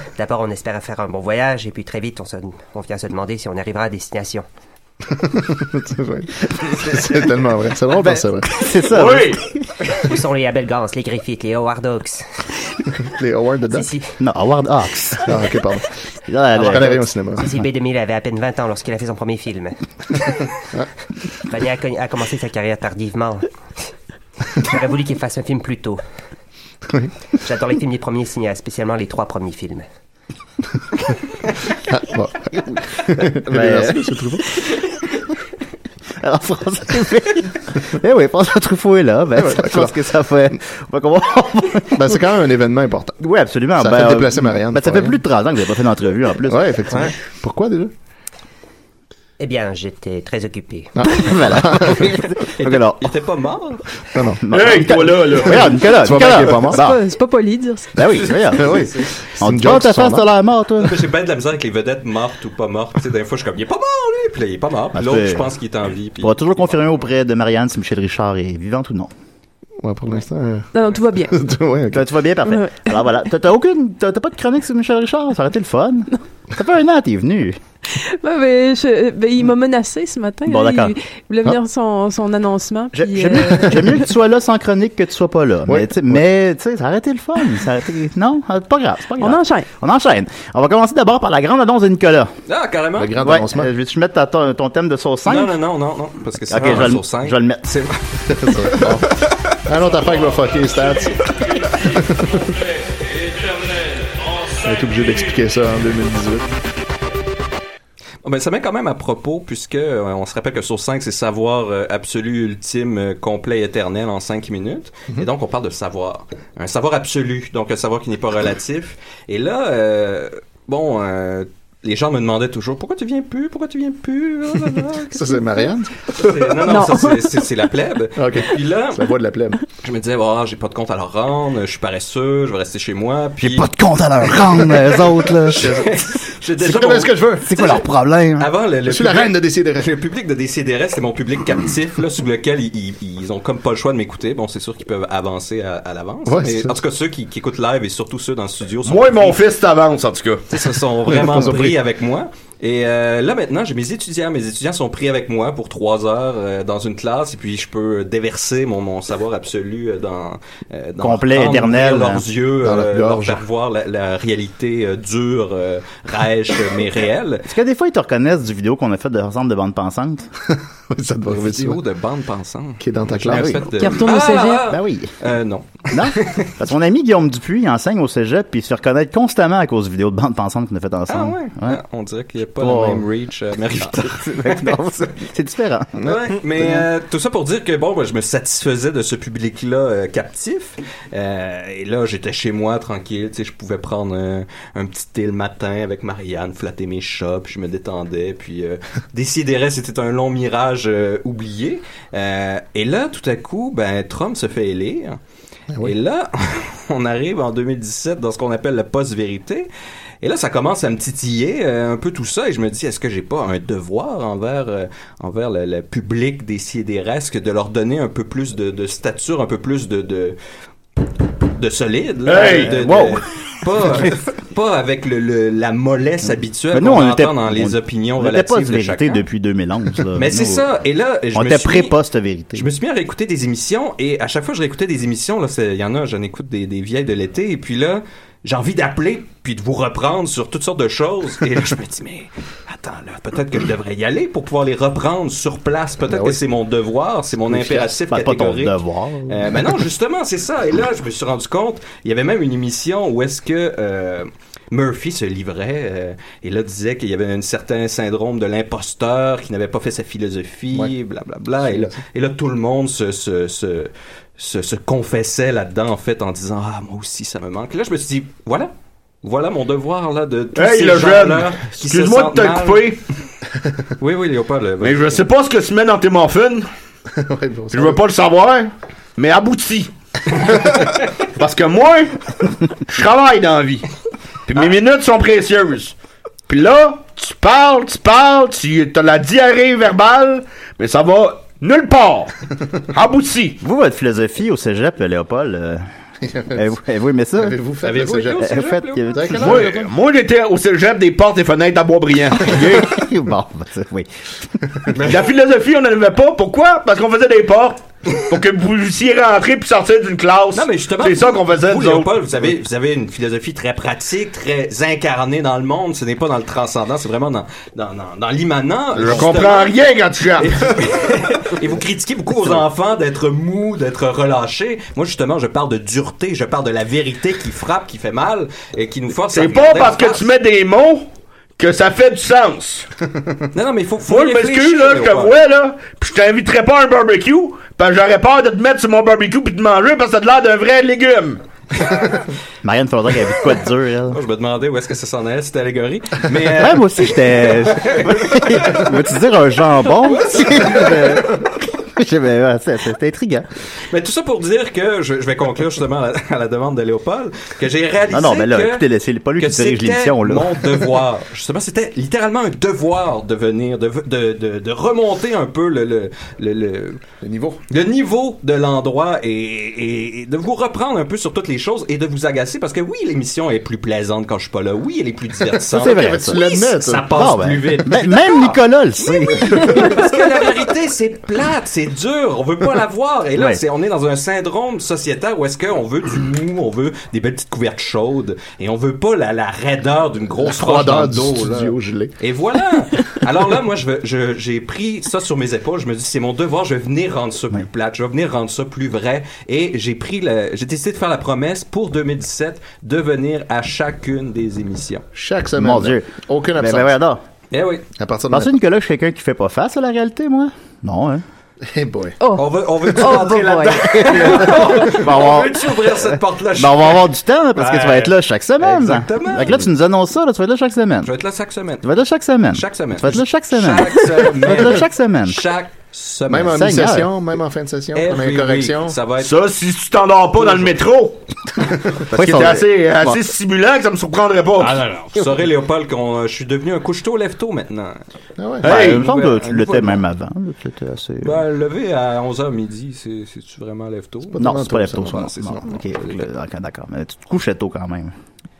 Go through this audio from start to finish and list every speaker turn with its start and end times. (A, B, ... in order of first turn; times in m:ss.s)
0:00.1-0:04.4 A
0:05.1-0:08.7 B
0:07.9-0:09.6 C
0:08.8-0:09.4 D
0:09.9-0:12.2 A
0:13.0-0:13.9 B
0:13.7-0:14.1 A
0:14.2-0:15.3 C
0:15.2-0:15.9 B
0:16.3-0:17.0 C
0:16.5-0:19.8 A
0:16.6-0:17.5 B
0:21.4-0:23.5 A
0:24.6-0:26.0 A
0:27.4-0:29.9 A
0:31.9-0:32.4 B
0:32.5-0:34.1 C
0:33.0-0:34.5 B
0:36.2-0:42.2 C
0:39.4-0:40.0 B
0:41.9-0:43.2 B
0:43.2-0:47.1 C
0:43.8-0:45.2 B
0:46.5-0:47.9 B
0:49.4-0:50.9 A
0:51.0-0:52.2 B
0:51.0-0:53.1 C
0:52.6-0:53.8 E
0:54.1-0:56.9 B
0:54.4-0:57.0 C
0:54.5-0:55.7 D
0:56.7-0:58.0 F
0:57.9-1:01.1 C
0:58.0-0:59.1 E
0:58.6-1:00.3 B
1:00.8-1:06.9 E
1:04.9-1:05.5 C
1:06.2-1:09.1 C
1:09.8-1:10.7 B
1:10.7-1:11.4 F
1:11.3-1:12.1 B
1:11.9-1:17.6 C
1:12.4-1:12.9 F
1:17.9-1:24.0 F
1:20.4-1:20.9 C
1:22.9-1:32.3 C
1:25.7-1:26.2 B
1:29.2-1:29.7 F
1:32.5-1:33.2 E
1:33.0-1:33.7 B
1:33.2-1:35.6 C
1:35.3-1:38.6 E
1:36.5-1:37.8 C
1:38.3-1:42.5 B
1:44.6-1:46.5 B
1:48.2-2:05.2 E
2:05.1-2:06.8 B
2:06.1-2:09.1 E
2:06.7-2:07.4 F
2:08.2-2:09.6 B
2:09.8-2:13.7 E
2:13.4-2:15.8 C
2:14.5-2:17.8 E
2:15.5-2:16.0 B
2:16.6-2:17.5 B
2:17.4-2:18.5 C
2:18.4-2:29.4 E
2:18.9-2:19.9 B
2:26.2-2:26.8 B
2:28.8-2:30.4 D
2:30.5-2:47.5 E
2:31.0-2:31.8 B
2:41.0-2:42.2 C
2:42.6-2:43.4 B
2:47.4-2:50.3 C
2:50.9-2:51.8 B
2:51.3-2:56.5 E
2:52.8-2:53.6 B
2:53.3-2:53.9 C
2:53.7-2:54.7 F
2:54.6-2:55.1 C
2:55.9-3:01.8 C
3:01.1-3:04.8 E
3:02.6-3:03.0 C
3:03.8-3:06.0 C
3:06.0-3:25.2 E
3:06.6-3:06.8 C
3:25.8-3:29.7 E
3:30.2-3:40.4 E
3:41.5-3:49.2 E
3:42.2-3:42.7 D
3:42.3-3:43.2 C
3:46.7-3:50.6 C
3:50.2-3:52.0 E
3:51.3-3:52.7 C
3:52.5-4:28.7 E
4:06.1-4:06.4 B
4:07.5-4:09.7 C
4:21.6-4:21.9 B
4:29.2-4:33.0 E
4:30.5-4:33.0 D
4:34.0-4:35.2 E
4:34.8-4:36.7 D
4:37.1-4:38.0 B
4:37.7-4:39.9 D
4:41.2-4:42.1 D
4:42.7-4:43.8 D
4:44.5-4:45.9 D
4:46.5-4:52.3 D
4:52.9-4:53.6 D
4:53.6-4:55.8 C
4:56.2-4:56.7 B
4:56.5-4:57.6 C
4:57.4-4:59.6 B
4:57.8-4:59.7 E
4:58.3-4:59.8 C
4:59.4-5:02.9 D
5:02.5-5:04.4 C
5:04.9-5:05.3 E
5:05.0-5:12.2 D
5:10.5-5:19.8 E
5:18.9-5:20.8 D
5:20.4-5:30.3 E
5:29.3-5:31.1 D
5:31.6-5:32.9 D
5:33.5-5:35.4 E
5:34.0-5:41.4 D
5:42.6-5:44.2 C
5:44.1-5:48.9 E
5:46.5-5:53.5 C
5:50.0-5:51.3 E
5:53.9-5:58.8 E
5:58.1-6:00.8 C
5:59.4-6:07.0 E
6:07.2-6:07.6 B
6:07.7-6:45.0 E
6:15.7-6:16.4 C
6:15.8-6:17.2 B
6:17.1-6:20.0 C
6:23.4-6:23.6 C
6:30.4-6:32.1 B
6:45.1-6:46.9 B
6:45.6-6:47.2 C
6:47.5-6:47.8 E
6:48.0-6:48.5 B
6:48.3-6:51.2 C
6:51.6-6:52.2 B
6:52.2-6:54.5 F
6:52.3-6:59.7 E
6:53.7-7:01.1 C
7:01.0-7:01.9 E
7:01.8-7:05.4 C
7:02.5-7:06.7 E
7:06.3-7:09.0 B
7:06.4-7:07.1 C
7:07.9-7:09.3 E
7:09.2-7:11.2 D
7:12.1-7:14.8 D
7:12.1-7:13.2 C
7:14.6-7:18.0 E
7:18.4-7:18.7 B
7:18.6-7:19.0 D
7:18.6-7:21.4 C
7:18.7-7:20.0 E
7:21.2-7:24.5 E
7:24.3-7:25.3 B
7:24.4-7:28.1 C
7:25.0-7:26.2 E